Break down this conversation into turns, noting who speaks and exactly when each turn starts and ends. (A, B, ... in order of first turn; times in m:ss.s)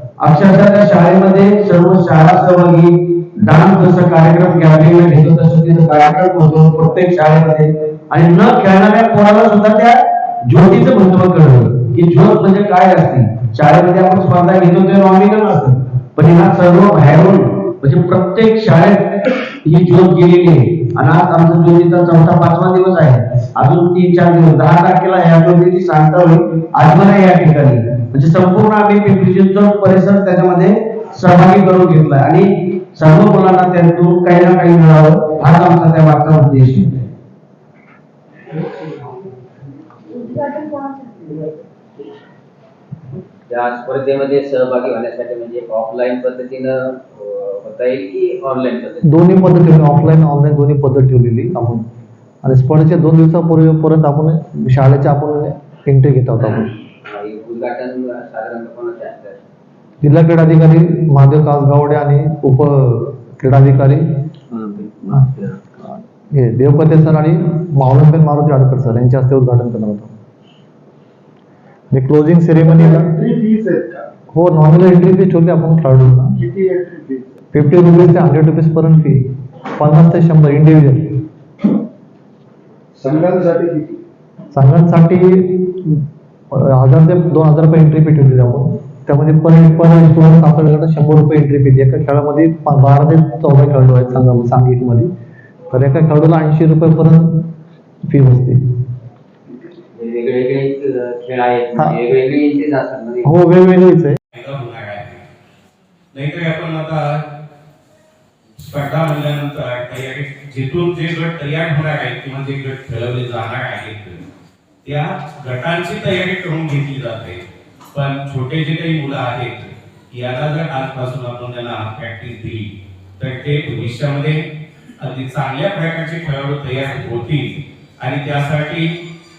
0:00.2-0:37.1 A
0:40.1-0:41.4 B
0:43.5-0:49.3 B
0:49.0-0:51.8 C
0:52.4-0:56.7 C
0:56.4-0:59.4 B
1:00.0-1:04.0 C
1:04.5-1:05.7 A
1:05.9-1:10.1 C
1:11.9-1:13.1 C
1:12.6-1:14.0 D
1:14.3-1:16.4 C
1:16.4-1:17.4 D
1:17.5-1:19.2 C
1:19.8-1:21.2 C
1:22.9-1:24.0 D
1:24.5-1:26.0 C
1:26.5-1:35.1 C
1:35.7-1:37.5 C
1:38.1-1:38.6 C
1:39.9-1:43.3 B
1:43.2-1:44.2 C
1:44.3-1:45.2 E
1:46.1-1:47.2 E
1:48.6-1:54.2 E
1:54.8-2:04.4 E
2:05.0-2:09.0 E